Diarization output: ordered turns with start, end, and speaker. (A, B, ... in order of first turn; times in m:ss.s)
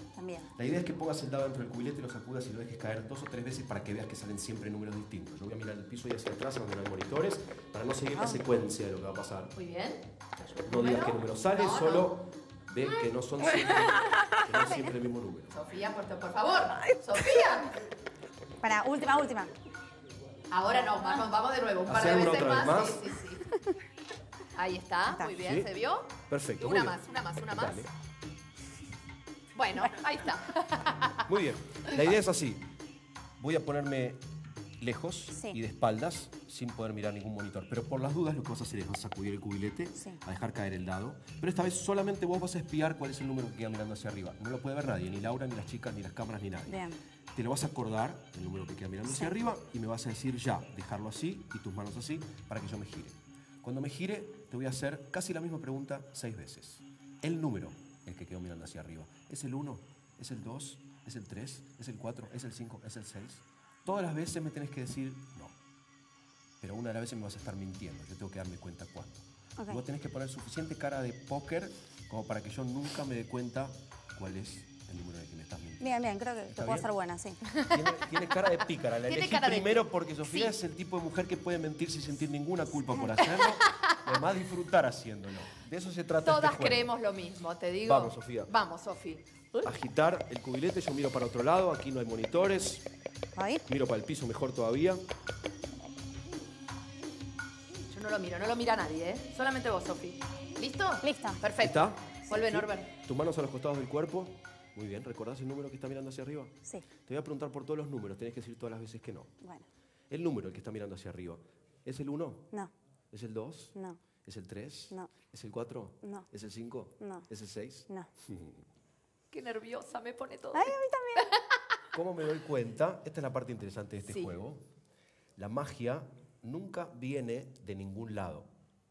0:00.2-0:00.5 A
0:00.6-0:09.5 B
0:09.6-0:12.1 C
0:10.7-0:15.5 B
0:14.6-0:14.9 A
0:15.5-0:17.8 C
0:18.6-0:19.6 A
0:20.5-0:23.5 C
0:21.9-0:23.0 B
0:24.6-0:27.9 C
0:25.2-0:25.7 B
0:26.3-0:27.9 B
0:29.6-0:31.2 C
0:31.3-0:32.7 B
0:33.4-0:34.2 B
0:34.8-1:05.6 B
0:35.3-0:35.6 A
0:46.7-0:47.0 A
0:49.1-0:49.3 A
1:06.6-1:16.9 B
1:09.6-1:09.8 A
1:15.8-1:17.4 A
1:17.5-1:17.8 C
1:17.7-1:26.9 B
1:19.1-1:20.5 C
1:26.2-1:29.7 C
1:27.8-1:28.5 B
1:29.6-1:32.9 B
1:33.4-1:33.6 A
1:33.7-1:35.0 B
1:37.7-1:42.9 C
1:41.0-1:41.4 A
1:41.6-1:49.3 B
1:49.4-1:49.7 A
1:50.1-1:52.5 B
1:53.1-1:58.6 B
1:53.8-1:54.0 A
1:56.0-1:56.3 A
1:57.0-1:57.3 A
1:59.3-2:00.8 C
2:00.5-2:01.3 A
2:01.9-2:04.6 B
2:04.1-2:04.4 C
2:05.4-2:08.5 B